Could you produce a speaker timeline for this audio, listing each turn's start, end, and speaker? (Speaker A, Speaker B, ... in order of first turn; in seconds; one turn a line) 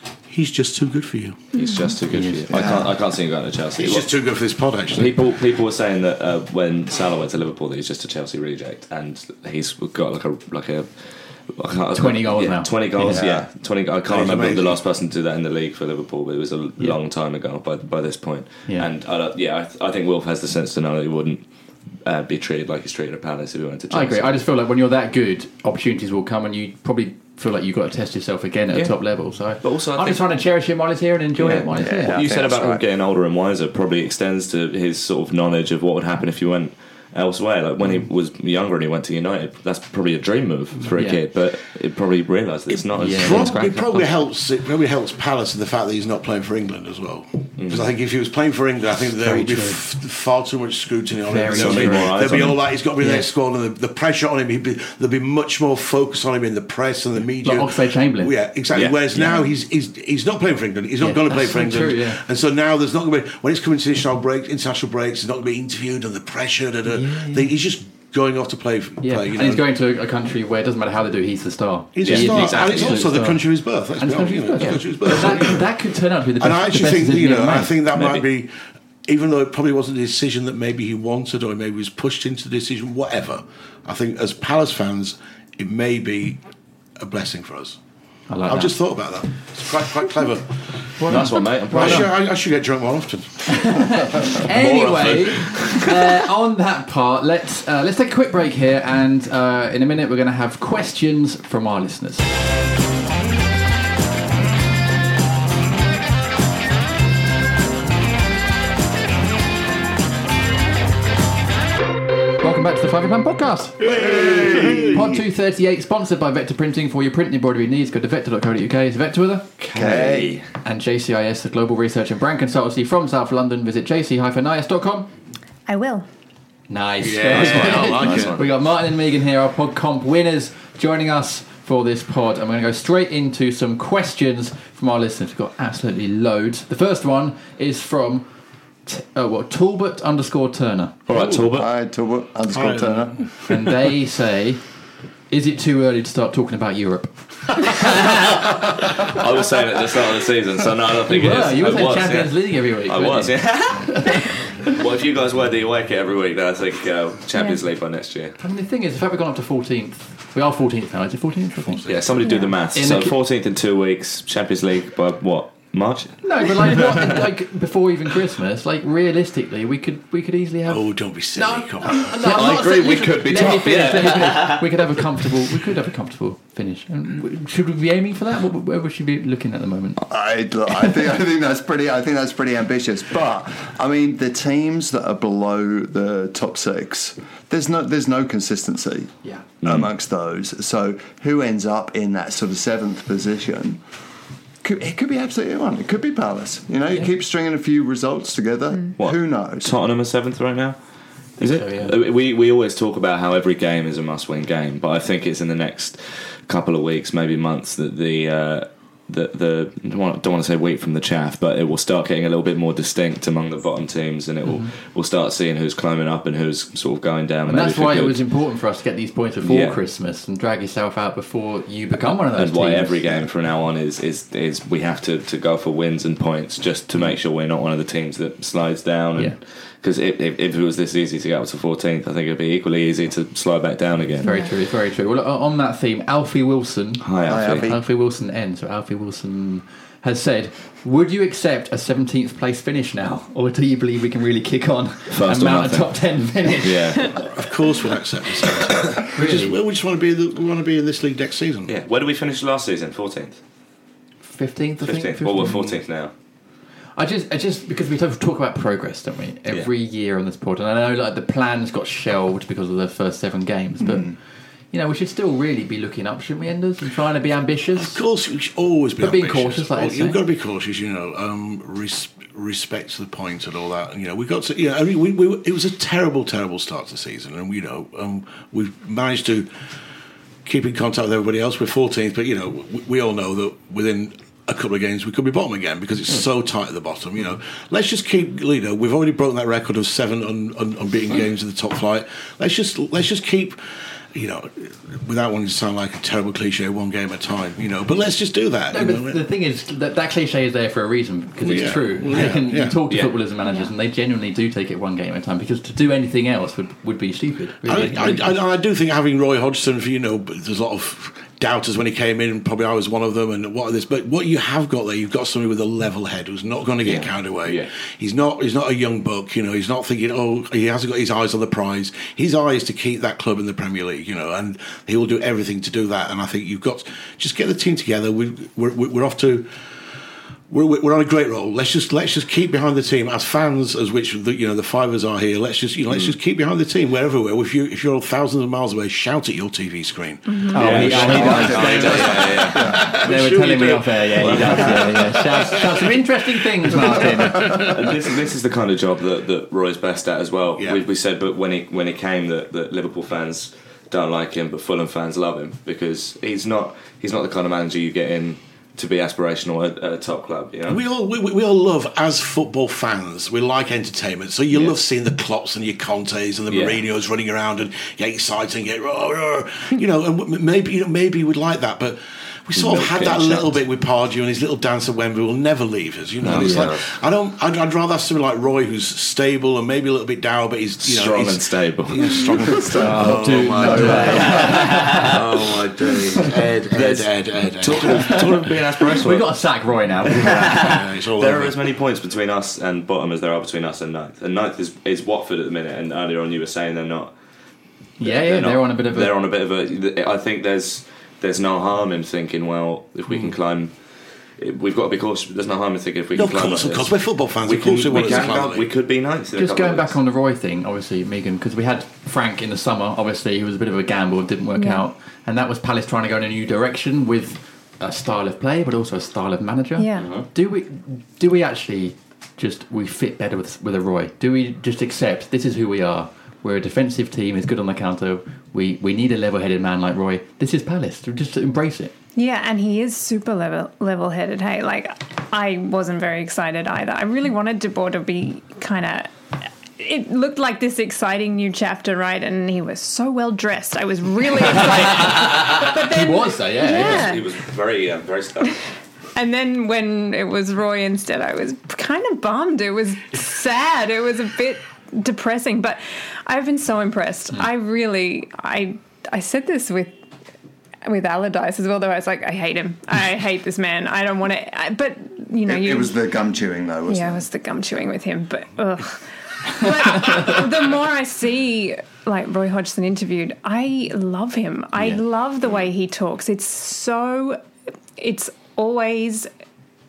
Speaker A: 0.3-1.4
Speaker B: 1.5-4.1
Speaker C: 1.5-1.9
Speaker D: 2.1-2.6
Speaker E: 2.5-2.9
Speaker A: 3.7-5.1
Speaker B: 4.9-10.9
Speaker B: 11.5-21.4
Speaker D: 11.9-13.2
Speaker A: 13.1-13.4
Speaker A: 14.1-14.8
Speaker B: 22.0-24.4
Speaker D: 23.9-32.2
Speaker B: 28.7-29.0
Speaker B: 29.6-30.3
Speaker B: 31.4-44.1
Speaker E: 31.7-32.8
Speaker D: 40.9-41.2
Speaker A: 42.7-69.6
Speaker D: 43.0-43.7
Speaker B: 47.6-47.9
Speaker D: 49.2-49.8
Speaker D: 51.2-53.3
Speaker B: 51.5-52.6
Speaker D: 57.4-58.3
Speaker B: 58.7-59.0
Speaker D: 61.0-62.2
Speaker D: 66.9-67.5
Speaker D: 69.0-73.5
Speaker A: 71.9-75.6
Speaker B: 72.0-73.0
Speaker D: 74.0-77.7
Speaker A: 76.4-86.4
Speaker B: 77.9-78.2
Speaker A: 87.0-87.8
Speaker D: 88.3-88.8
Speaker A: 88.4-90.5
Speaker D: 91.0-92.1
Speaker A: 91.0-93.8
Speaker B: 91.1-92.1
Speaker D: 93.5-102.3
Speaker A: 94.5-95.3
Speaker D: 112.4-113.9
Speaker A: 113.8-115.1
Speaker E: 113.9-114.9
Speaker D: 114.8-119.5
Speaker B: 119.6-120.5
Speaker E: 119.7-120.3
Speaker D: 120.6-125.1
Speaker C: 125.7-126.0
Speaker D: 126.7-138.3
Speaker A: 127.0-128.4
Speaker B: 127.3-128.5
Speaker D: 138.8-141.0
Speaker B: 141.1-141.7
Speaker E: 141.5-143.2
Speaker A: 142.5-143.3
Speaker D: 143.5-144.6
Speaker D: 145.3-148.2
Speaker B: 148.0-158.4
Speaker D: 151.0-154.7
Speaker C: 157.3-157.6
Speaker D: 158.4-161.9
Speaker A: 161.7-162.1
Speaker B: 161.8-167.1
Speaker C: 162.2-162.5
Speaker D: 162.7-163.2
Speaker D: 166.2-180.0
Speaker A: 170.7-172.2
Speaker B: 172.2-174.8
Speaker E: 180.0-193.8
Speaker B: 189.6-189.9
Speaker E: 194.6-199.7
Speaker B: 199.0-200.8
Speaker B: 201.4-218.2
Speaker D: 201.4-202.0
Speaker D: 214.4-214.7
Speaker D: 217.5-223.2
Speaker B: 219.4-219.8
Speaker B: 222.3-234.3
Speaker C: 234.2-234.5
Speaker D: 234.2-247.2
Speaker B: 237.0-237.7
Speaker E: 237.2-237.8
Speaker B: 245.1-246.0
Speaker B: 246.6-247.2
Speaker A: 247.3-251.7
Speaker D: 249.1-249.6
Speaker B: 251.7-253.4
Speaker D: 254.2-255.8
Speaker B: 254.8-256.1
Speaker D: 256.9-264.1
Speaker D: 264.7-268.0
Speaker A: 267.8-279.5
Speaker D: 269.0-270.2
Speaker A: 280.4-293.6
Speaker A: 294.1-299.2
Speaker D: 298.7-308.4
Speaker A: 301.4-302.8
Speaker C: 303.4-303.7
Speaker A: 307.6-329.5
Speaker B: 316.8-317.7
Speaker A: 330.5-345.9
Speaker C: 340.3-340.8
Speaker D: 340.5-347.8
Speaker B: 340.5-342.8
Speaker E: 340.8-342.8
Speaker B: 344.2-345.0
Speaker B: 347.3-360.8
Speaker A: 350.6-350.8
Speaker A: 360.7-388.5
Speaker B: 366.5-366.8
Speaker B: 372.5-373.6
Speaker B: 376.2-376.9
Speaker D: 376.3-376.7
Speaker B: 380.8-382.6
Speaker E: 382.5-384.1
Speaker D: 382.8-385.1
Speaker B: 383.7-389.3
Speaker D: 387.8-390.8
Speaker B: 390.1-397.1
Speaker A: 390.3-391.6
Speaker D: 398.0-399.1
Speaker B: 398.0-403.7
Speaker B: 404.4-410.0
Speaker A: 406.1-408.6
Speaker D: 409.4-431.9
Speaker C: 414.5-414.8
Speaker C: 419.8-420.1
Speaker B: 419.9-420.3
Speaker C: 432.1-439.1
Speaker C: 439.8-447.4
Speaker D: 444.6-447.1
Speaker B: 446.7-448.6
Speaker C: 449.1-459.9
Speaker C: 460.8-466.0
Speaker E: 465.4-467.2
Speaker C: 466.9-477.4
Speaker C: 478.0-479.3